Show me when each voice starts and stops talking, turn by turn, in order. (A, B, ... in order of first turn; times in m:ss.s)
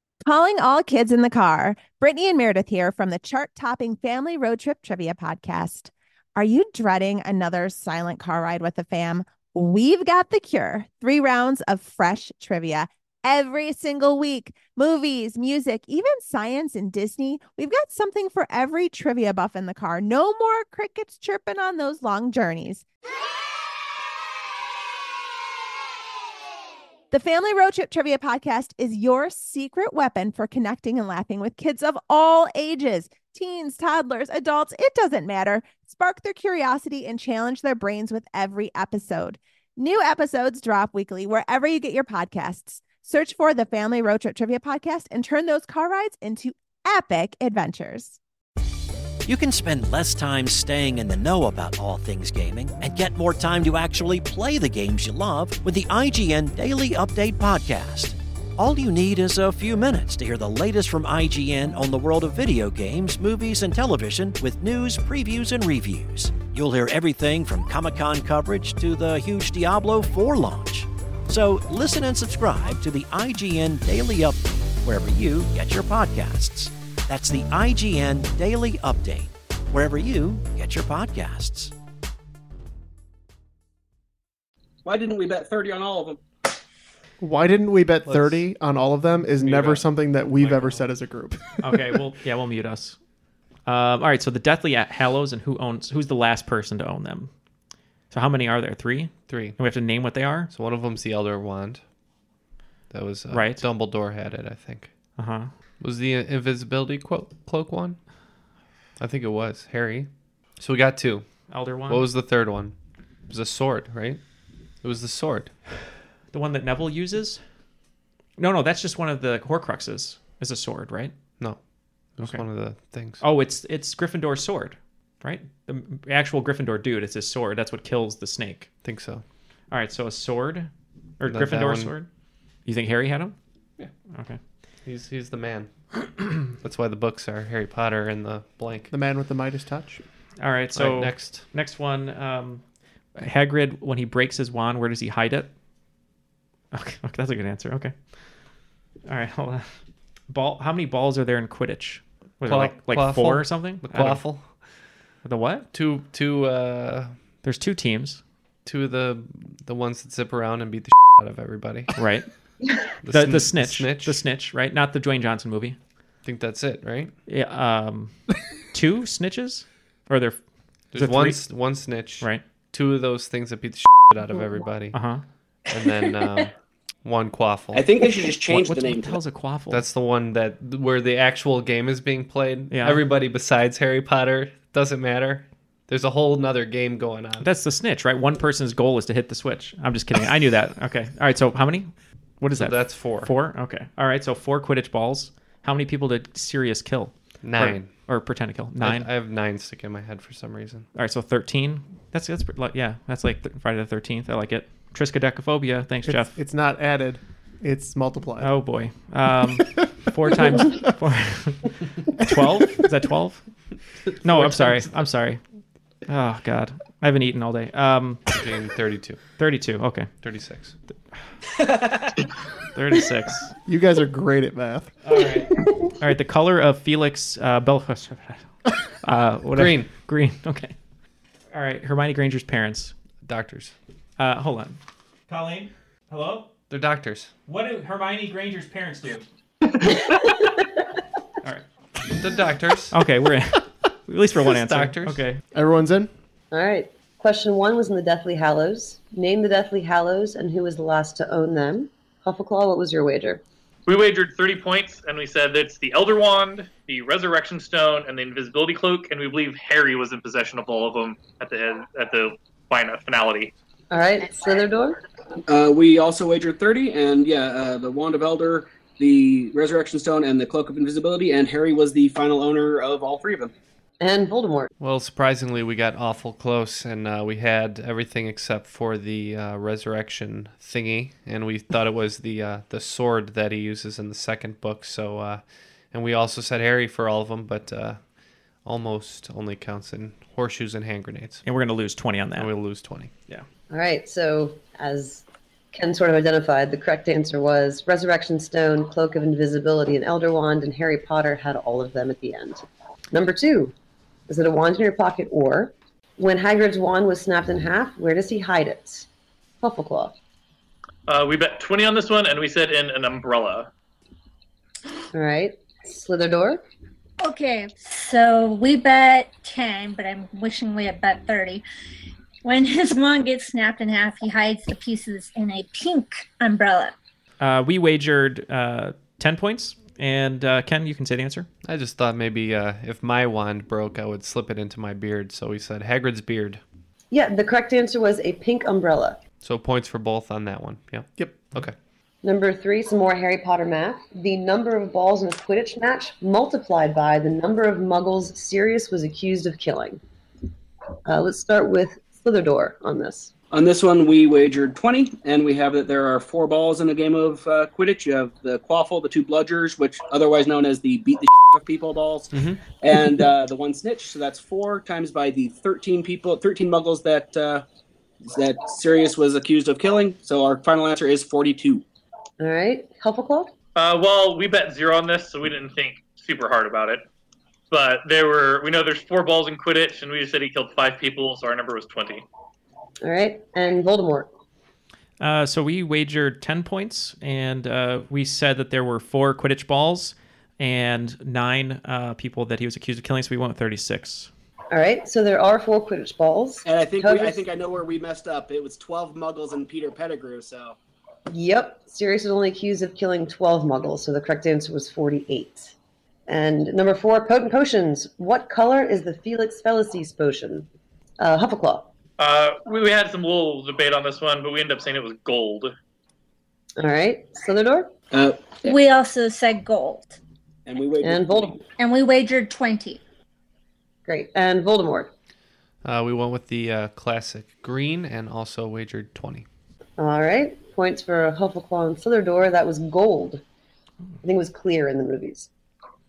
0:00.2-0:22.8 A
0:27.1-0:48.2 A
0:49.2-1:21.7 B
1:24.8-1:26.2 C
1:27.2-1:31.4 D
1:28.0-1:28.4 E
1:29.4-1:29.8 E
1:31.6-1:33.0 F
1:33.6-1:37.3 F
1:38.1-1:40.5 F
1:39.3-1:39.6 E
1:40.5-1:41.8 E
1:42.9-1:44.9 E
1:43.3-1:43.6 F
1:45.2-1:45.5 F
1:45.8-1:48.0 E
1:49.0-1:50.1 E
1:50.6-1:51.2 E
1:51.5-1:52.0 F
1:51.9-1:52.7 E
1:53.3-1:54.2 E
1:54.8-1:55.5 E
1:56.3-1:57.4 F
1:58.4-2:01.1 F
2:02.2-2:03.2 E
2:03.2-2:08.7 F
2:08.8-2:09.2 E
2:09.7-2:12.1 F
2:11.2-2:11.9 E
2:12.6-2:13.3 F
2:14.1-2:14.4 F
2:14.8-2:18.9 E
2:18.9-2:20.0 D
2:20.4-2:22.6 F
2:20.7-2:21.4 E
2:23.2-2:25.5 F
2:26.7-2:27.9 F
2:29.1-2:29.7 F
2:30.3-2:34.2 F
2:32.4-2:34.5 E
2:35.2-2:35.7 F
2:35.7-2:37.1 E
2:37.4-2:38.2 F
2:38.6-2:41.9 E
2:41.9-2:42.2 F
2:43.0-2:44.2 E
2:43.1-2:45.8 F
2:46.2-2:47.1 E
2:47.3-2:48.2 F
2:48.7-2:50.4 F
2:50.9-2:55.0 E
2:50.9-2:51.5 F
2:54.9-2:55.2 F
2:55.7-2:56.5 E
2:57.0-2:58.0 E
2:57.7-2:59.1 C
2:58.5-2:59.8 F
2:59.7-3:07.5 E
3:02.7-3:03.0 F
3:07.4-3:11.9 F
3:12.4-3:19.1 F
3:12.6-3:13.3 E
3:17.4-3:17.9 E
3:18.8-3:20.9 E
3:21.0-3:26.3 F
3:26.0-3:28.5 D
3:28.4-3:33.4 F
3:34.2-3:35.4 F
3:34.4-3:34.7 E
3:36.1-3:38.2 F
3:38.3-3:39.2 E
3:39.4-3:40.1 F
3:40.2-3:40.7 E
3:41.6-3:42.2 C
3:42.7-3:43.5 F
3:43.6-3:44.9 D
3:45.0-3:48.4 F
3:49.0-3:50.7 F
3:49.5-3:49.9 E
3:51.5-3:52.9 F
3:53.2-3:53.7 E
3:54.2-3:54.8 F
3:55.3-3:56.5 F
3:56.7-3:57.3 E
3:57.5-3:59.2 F
4:02.1-4:03.0 E
4:02.9-4:05.4 F
4:04.4-4:05.2 E
4:05.5-4:06.1 D
4:06.5-4:13.4 G
4:13.9-4:23.5 H
4:23.9-4:25.0 G
4:25.5-4:33.5 C
4:34.0-4:34.7 G
4:34.8-4:48.0 E
4:48.6-4:51.4 E
4:51.4-4:52.5 F
4:52.4-4:53.1 E
4:53.7-5:03.7 G
5:04.3-5:09.0 G
5:09.6-5:10.1 G
5:11.1-5:13.7 H
5:15.1-5:16.6 G
5:17.2-5:21.6 I
5:22.4-5:26.9 I
5:27.4-5:31.5 F
5:31.6-5:36.6 E
5:37.1-5:39.2 G
5:39.4-5:41.7 E
5:41.2-5:41.5 D
5:42.2-5:50.0 G
5:51.0-5:53.3 G
5:53.5-6:07.6 C
6:02.3-6:02.6 E
6:08.2-6:11.8 C
6:12.4-6:13.5 G
6:13.8-6:17.0 H
6:17.7-6:22.2 H
6:23.0-6:24.3 G
6:25.2-6:34.3 F
6:34.7-6:37.4 G
6:36.6-6:40.8 C
6:41.3-6:45.7 G
6:46.3-6:50.7 G
6:51.2-6:51.9 G
6:52.2-6:55.7 H
6:56.8-6:57.9 G
6:58.1-6:58.4 C
6:58.6-7:00.2 I
7:00.6-7:01.6 C
7:01.0-7:01.6 G
7:01.8-7:03.0 I
7:04.1-7:05.1 G
7:05.8-7:09.4 E
7:10.0-7:13.4 G
7:14.2-7:15.5 G